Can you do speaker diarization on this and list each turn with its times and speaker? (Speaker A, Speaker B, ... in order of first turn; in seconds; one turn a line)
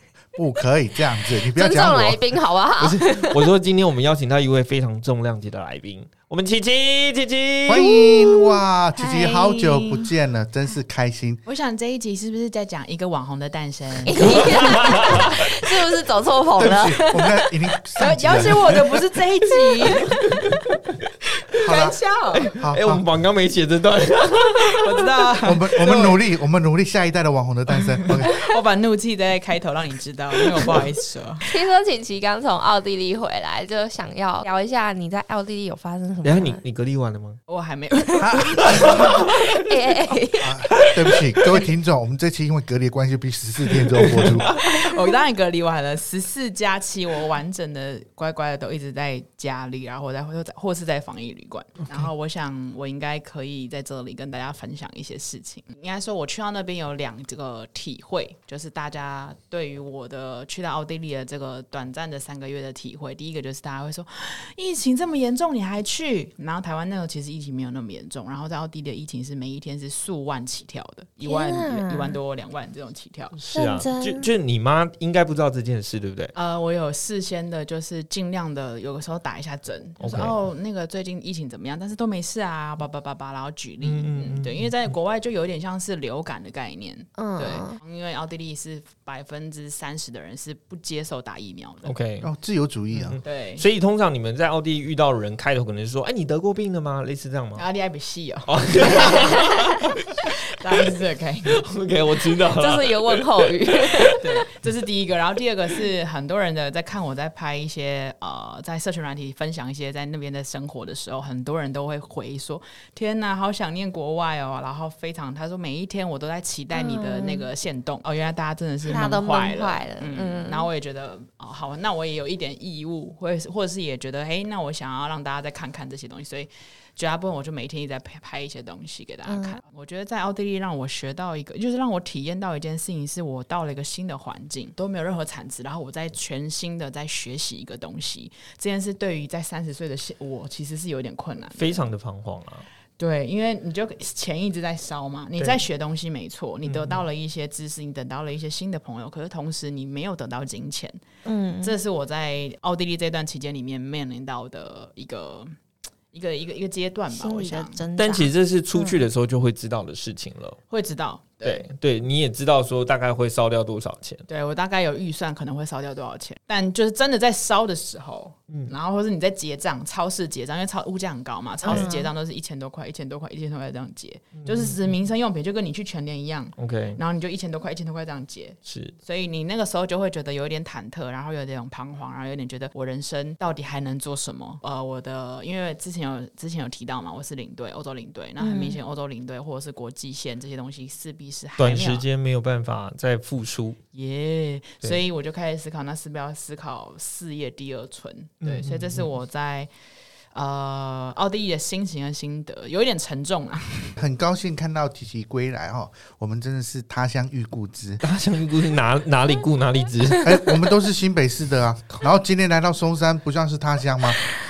Speaker A: 0.3-2.4
Speaker B: 1.4-3.5
Speaker C: 2.8-8.0
Speaker A: 7.7-11.4
Speaker B: 7.8-8.6
Speaker D: 8.9-10.1
Speaker D: 11.5-14.7
Speaker B: 14.1-17.5
Speaker C: 14.2-15.3
Speaker A: 16.6-18.8
Speaker D: 18.0-20.1
Speaker B: 19.8-20.0
Speaker C: 20.4-20.6
Speaker A: 21.6-22.0
Speaker D: 21.6-22.5
Speaker C: 22.3-25.0
Speaker A: 22.6-23.0
Speaker D: 24.8-26.2
Speaker A: 25.4-28.3
Speaker D: 28.2-31.5
Speaker B: 31.5-36.6
Speaker C: 36.2-37.4
Speaker D: 37.5-38.8
Speaker B: 38.1-40.5
Speaker A: 38.2-39.2
Speaker C: 38.6-39.3
Speaker A: 40.4-44.5
Speaker C: 43.9-44.4
Speaker D: 44.5-73.4
Speaker B: 71.2-72.2
Speaker C: 73.4-76.3
Speaker B: 73.5-74.3
Speaker D: 76.3-91.9
Speaker C: 80.0-80.4
Speaker C: 83.8-84.7
Speaker B: 87.2-87.8
Speaker C: 91.8-92.3
Speaker A: 92.2-93.2
Speaker C: 92.9-97.7
Speaker D: 93.2-93.6
Speaker D: 97.6-99.4
Speaker C: 98.5-100.2
Speaker D: 100.2-101.6
Speaker C: 101.5-104.1
Speaker B: 102.6-104.3
Speaker D: 104.2-141.8
Speaker B: 116.7-117.5
Speaker B: 118.8-120.7
Speaker B: 129.2-129.6
Speaker C: 141.6-142.7
Speaker D: 143.0-151.0
Speaker C: 146.7-147.0
Speaker B: 151.2-151.8
Speaker D: 151.6-155.6
Speaker D: 156.1-157.8
Speaker B: 157.1-159.0
Speaker C: 158.0-160.6
Speaker D: 160.7-161.7
Speaker C: 161.4-164.2
Speaker D: 164.3-192.0
Speaker B: 171.7-172.1
Speaker C: 174.4-174.9
Speaker C: 176.6-177.0
Speaker C: 178.7-179.0
Speaker B: 188.4-188.8
Speaker C: 191.6-193.8
Speaker D: 193.9-199.7
Speaker C: 198.4-199.1
Speaker D: 200.3-204.0
Speaker A: 204.0-208.0
Speaker C: 208.0-210.3
Speaker A: 210.2-214.2